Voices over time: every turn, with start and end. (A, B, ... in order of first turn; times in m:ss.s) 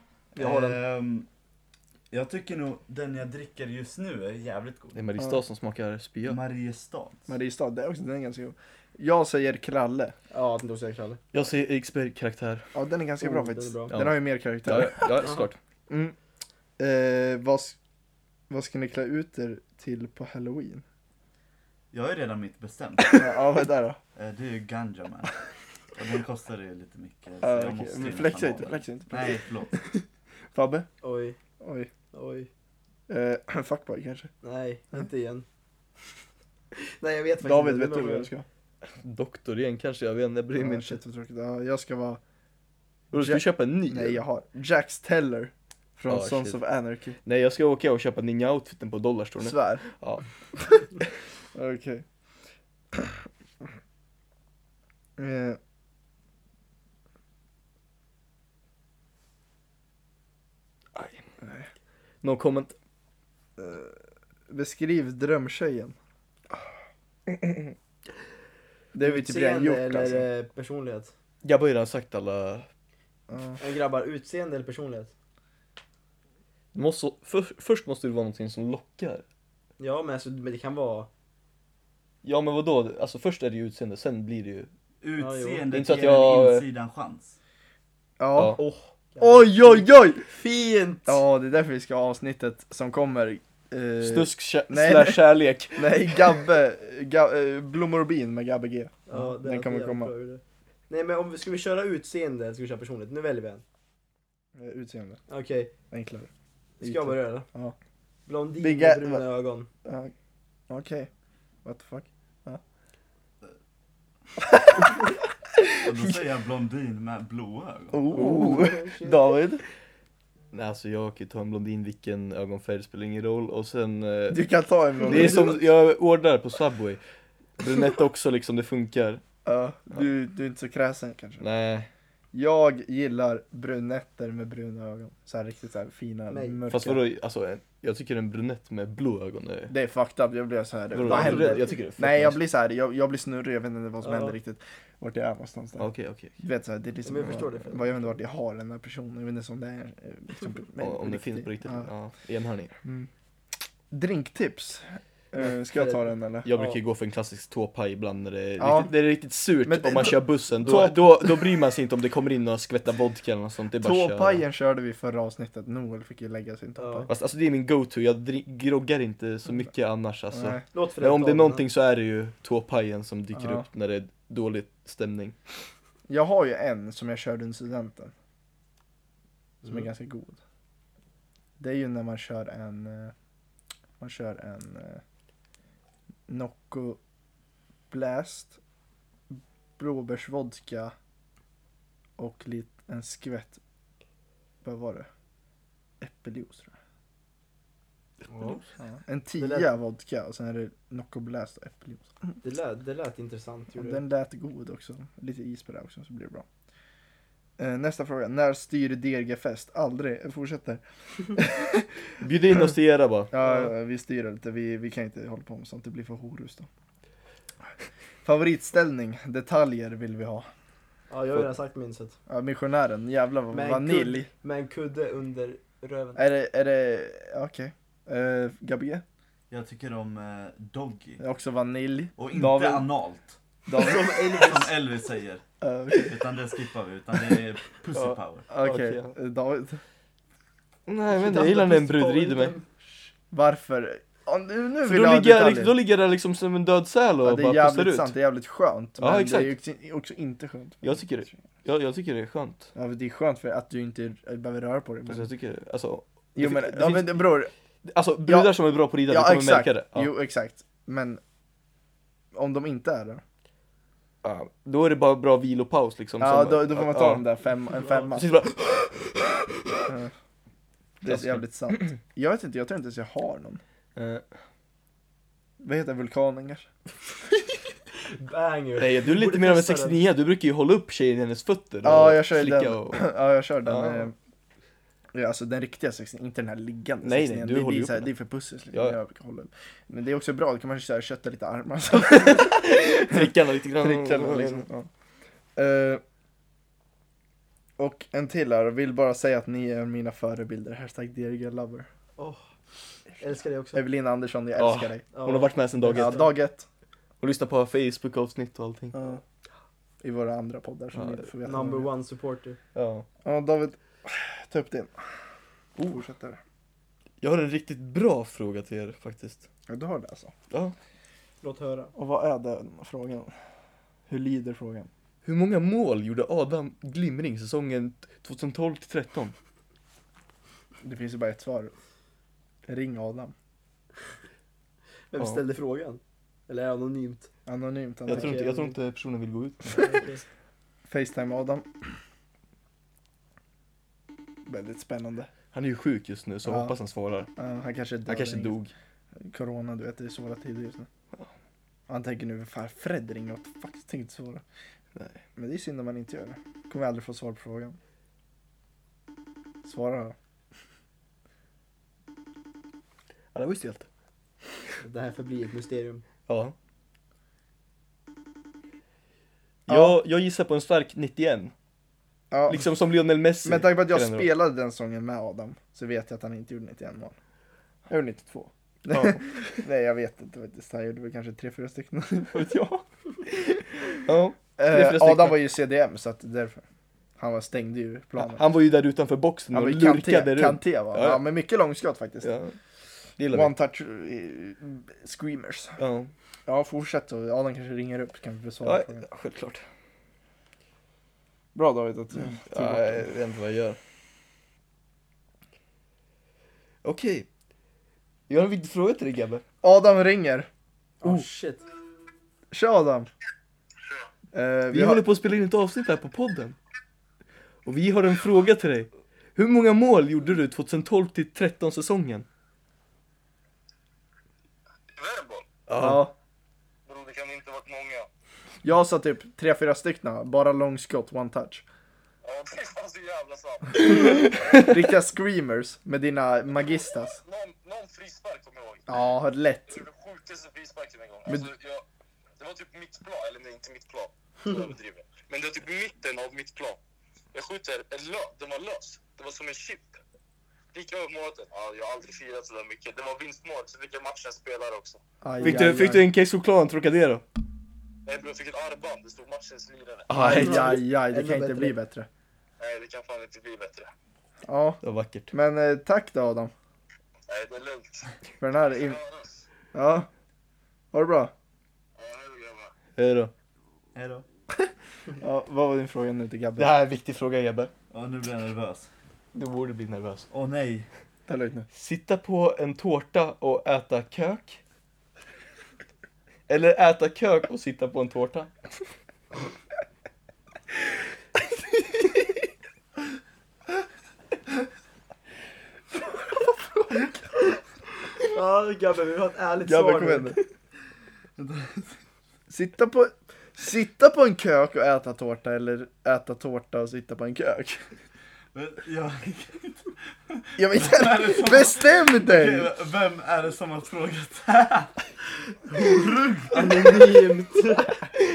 0:00.4-0:01.3 A
0:00.4-0:00.7 B
0:02.1-0:05.0 A
0:04.9-0:06.4 C
0:06.2-0:07.3 A
0:07.3-0:10.1 D
0:10.3-0:11.2 B
0:11.3-0:12.7 C
0:12.7-0:15.2 D
0:13.2-0:13.9 B
0:13.9-0:15.6 C
0:15.2-0:15.5 B
0:15.9-0:16.1 D
0:16.8-0:17.8 D
0:18.5-0:20.8 D
0:21.9-0:23.4 A
0:23.0-0:24.0 D
0:24.2-0:25.3 A
0:25.9-0:29.8 A
0:27.4-0:29.8 D
0:30.5-0:30.9 D
0:31.0-0:31.4 B
0:31.6-0:31.9 D
0:32.1-0:32.5 B
0:33.1-0:34.3 D
0:34.4-0:35.4 B
0:36.8-0:38.3 B
0:37.4-0:38.4 D
0:39.0-0:41.0 C
0:40.5-0:42.2 D
0:43.1-0:44.2 C
0:43.1-0:47.2 D
0:46.1-0:46.6 C
0:47.2-0:50.2 C
0:49.4-0:49.8 D
0:51.5-0:52.0 D
0:55.2-0:55.6 D
1:00.9-1:01.2 C
1:01.4-1:01.7 D
1:02.2-1:02.7 C
1:03.6-1:06.0 D
1:08.9-1:10.3 D
1:09.0-1:11.1 B
1:11.4-1:12.7 C
1:13.3-1:13.6 D
1:13.6-1:15.1 B
1:16.7-1:19.2 C
1:19.8-1:21.1 B
1:22.2-1:24.7 C
1:25.0-1:27.4 A
1:25.2-1:25.6 B
1:25.7-1:26.6 C
1:28.2-1:28.6 D
1:28.6-1:31.2 B
1:29.2-1:30.2 D
1:31.1-1:40.1 D
1:34.0-1:36.4 C
1:39.1-1:43.6 B
1:44.5-1:45.2 D
1:45.3-1:45.7 B
1:45.9-1:46.3 D
1:46.8-1:47.5 B
1:46.8-1:47.8 D
1:48.2-1:49.7 B
1:48.6-1:49.2 D
1:49.8-1:50.1 D
1:50.7-1:51.1 D
1:51.6-1:52.6 D
1:54.6-1:54.9 D
1:55.8-1:58.0 A
1:57.9-1:59.6 D
1:58.1-1:59.3 B
1:58.2-1:58.6 C
2:00.5-2:04.4 C
2:04.3-2:05.6 D
2:05.0-2:07.0 C
2:07.6-2:09.2 C
2:09.4-2:11.4 D
2:11.4-2:11.9 C
2:12.3-2:17.0 D
2:16.3-2:16.6 B
2:16.7-2:19.7 C
2:19.7-2:31.9 D
2:20.9-2:22.4 C
2:21.0-2:21.7 B
2:24.0-2:24.4 B
2:25.8-2:26.3 C
2:27.0-2:28.1 B
2:30.8-2:32.8 C
2:32.8-2:33.1 D
2:33.9-2:36.5 D
2:35.4-2:36.8 B
2:36.4-2:44.4 C
2:38.6-2:39.0 D
2:39.6-2:41.5 D
2:43.8-2:47.1 D
2:46.8-2:47.1 B
2:47.1-2:55.4 C
2:50.3-2:50.6 D
2:50.7-2:51.7 B
2:53.3-2:53.6 D
2:56.1-2:58.1 D
2:59.6-3:00.4 D
3:01.6-3:03.1 D
3:04.0-3:05.0 D
3:06.3-3:07.0 D
3:07.9-3:08.6 D
3:09.3-3:10.9 D
3:12.2-3:13.6 D
3:14.6-3:15.1 D
3:16.0-3:16.7 D
3:18.3-3:18.6 B
3:18.3-3:18.6 C
3:18.8-3:22.3 D
3:19.4-3:19.7 B
3:22.4-3:24.0 B
3:23.7-3:26.4 D
3:27.6-3:31.8 D
3:32.2-3:33.3 C
3:33.3-3:36.7 D
3:33.4-3:33.7 B
3:38.2-3:40.5 D
3:41.1-3:42.2 B
3:42.3-3:44.3 D
3:43.5-3:46.2 B
3:46.1-3:49.0 D
3:49.5-3:51.2 A
3:51.2-3:52.9 D
3:52.2-3:58.5 A
3:53.7-3:54.4 D
3:53.7-3:54.8 B
3:55.6-3:56.2 D
3:57.9-3:59.1 C
3:58.5-3:59.8 D
4:00.9-4:02.5 C
4:01.1-4:02.7 B
4:03.3-4:05.7 D
4:04.8-4:08.1 C
4:07.2-4:11.4 D
4:09.0-4:09.5 C
4:10.8-4:12.7 C
4:12.7-4:15.3 D
4:15.1-4:17.3 C
4:16.4-4:17.5 D
4:17.8-4:20.1 C
4:18.2-4:21.2 D
4:22.3-4:23.2 D
4:24.2-4:27.2 C
4:26.2-4:28.3 D
4:28.0-4:29.9 C
4:31.0-4:33.6 D
4:31.0-4:31.9 C
4:34.0-4:34.2 C
4:35.6-4:36.7 D
4:38.1-4:40.0 B
4:38.8-4:43.1 C
4:41.8-4:44.1 D
4:43.6-4:44.1 C
4:45.1-4:54.9 D
4:47.0-4:48.1 C
4:52.1-4:54.6 C
4:55.6-4:56.0 D
4:57.8-5:01.9 D
5:02.2-5:02.4 B
5:03.2-5:03.8 B
5:03.7-5:05.0 D
5:04.6-5:06.3 C
5:05.1-5:06.3 B
5:05.8-5:06.6 D
5:07.2-5:09.0 C
5:08.9-5:09.2 D
5:10.0-5:11.9 D
5:10.9-5:11.3 C
5:11.4-5:12.6 B
5:12.7-5:13.0 C
5:13.2-5:15.1 D
5:15.8-5:16.4 D
5:17.2-5:19.4 C
5:19.7-5:20.3 D
5:21.4-5:21.9 B
5:21.9-5:23.3 D
5:24.1-5:24.9 D
5:25.2-5:29.3 C
5:30.8-5:31.7 D
5:32.7-5:33.3 D
5:35.1-5:37.3 B
5:37.4-5:38.5 D
5:38.1-5:38.8 B
5:38.1-5:40.0 C
5:39.8-5:40.2 B
5:40.9-5:41.7 D
5:44.4-5:45.3 D
5:45.5-5:47.3 C
5:46.4-5:46.7 D
5:47.4-5:48.6 D
5:48.1-5:48.7 C
5:49.2-5:50.9 D
5:51.9-5:54.4 D
5:54.9-5:55.2 C
5:55.4-5:57.8 D
5:59.6-6:00.2 D
6:03.3-6:03.9 C
6:04.8-6:06.0 B
6:06.3-6:06.5 C
6:09.7-6:11.5 C
6:09.7-6:10.0 D
6:12.3-6:12.7 D
6:12.5-6:14.3 C
6:13.4-6:17.1 D
6:17.9-6:24.0 D
6:18.9-6:19.6 C
6:22.3-6:22.6 C
6:23.9-6:25.4 C
6:24.6-6:26.6 D
6:27.2-6:28.5 D
6:28.2-6:31.2 C
6:29.5-6:32.3 D
6:32.2-6:32.6 C
6:33.2-6:33.5 C
6:33.3-6:35.8 D
6:35.8-6:36.1 C
6:36.5-6:39.0 D
6:38.6-6:39.6 C
6:41.5-6:43.1 D
6:42.2-6:43.8 C
6:46.8-6:47.3 C
6:48.3-6:49.4 C
6:49.6-6:50.5 D
6:51.0-6:51.6 B
6:52.5-6:53.1 D
6:54.3-6:55.0 D
6:54.7-6:56.6 C
6:57.6-7:02.2 C
7:04.9-7:05.4 E
7:05.7-7:06.1 C
7:05.7-7:06.1 D
7:06.8-7:08.1 E
7:08.6-7:11.6 D
7:12.2-7:14.3 E
7:13.8-7:17.2 D
7:13.9-7:14.6 C
7:16.7-7:19.0 E
7:18.9-7:19.8 D
7:19.7-7:21.8 E
7:22.4-7:26.8 E
7:27.3-7:30.0 E
7:30.7-7:35.0 E
7:35.2-7:36.1 D
7:35.4-7:37.2 C
7:38.0-7:40.1 E
7:40.1-7:40.8 C
7:40.1-7:42.1 D
7:40.2-7:41.8 B
7:42.6-7:43.9 E
7:44.4-7:44.8 D
7:44.8-7:45.3 C
7:45.3-7:46.5 D
7:47.3-7:48.1 E
7:48.4-7:49.0 D
7:48.7-7:49.4 E
7:49.7-7:50.1 D
7:50.9-7:51.3 D
7:52.0-7:52.7 E
7:53.0-7:53.3 C
7:53.9-7:54.2 A
7:55.2-7:56.7 D
7:56.6-7:57.7 C
7:57.9-7:58.9 A
7:59.3-8:00.3 C
8:00.3-8:00.9 A
8:01.3-8:01.7 D
8:01.7-8:04.6 C
8:06.5-8:08.5 C
8:18.2-8:20.4 B
8:19.6-8:20.4 D
8:21.4-8:22.0 A
8:22.5-8:27.9 D
8:28.5-8:35.0 A
8:30.6-8:32.7 D
8:35.7-8:37.1 A
8:36.5-8:38.0 B